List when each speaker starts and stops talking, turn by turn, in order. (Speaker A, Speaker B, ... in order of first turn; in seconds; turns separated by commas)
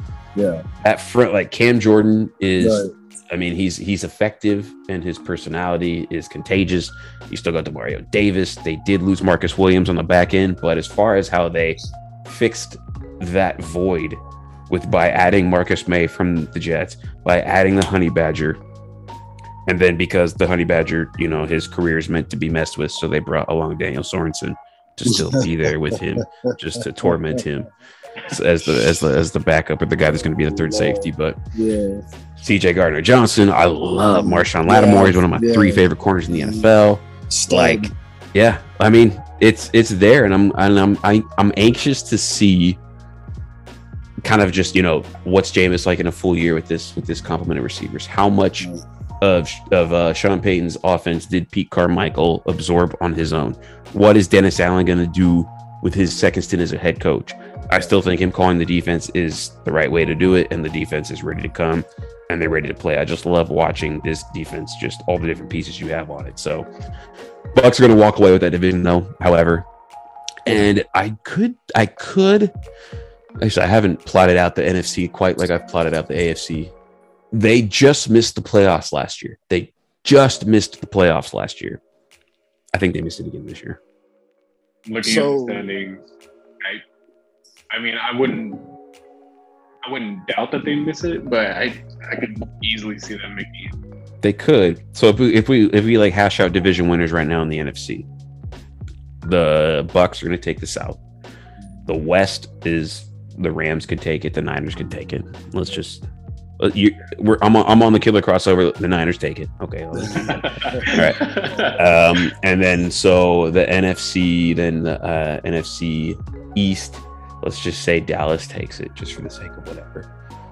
Speaker A: 0.4-0.6, Speaker B: 0.8-18.6, Speaker A: 2.6-2.9, Speaker B: 19.7-27.7, Speaker A: 25.1-25.5, Speaker A: 26.0-26.6, Speaker A: 27.1-27.4, Speaker B: 28.2-31.4, Speaker A: 30.4-32.0, Speaker B: 32.4-42.8, Speaker A: 34.1-36.7, Speaker A: 37.3-37.9, Speaker B: 44.2-48.7, Speaker B: 49.2-66.7, Speaker B: 67.5-69.7, Speaker B: 70.5-72.5, Speaker B: 73.4-76.7, Speaker B: 77.3-81.8, Speaker B: 82.7-83.8, Speaker C: 84.9-86.1, Speaker A: 85.0-85.6, Speaker C: 87.7-88.7, Speaker C: 89.8-93.8, Speaker B: 94.2-98.1, Speaker B: 99.2-101.0, Speaker B: 101.9-106.0, Speaker B: 106.6-120.1, Speaker A: 110.2-110.9, Speaker C: 110.3-111.8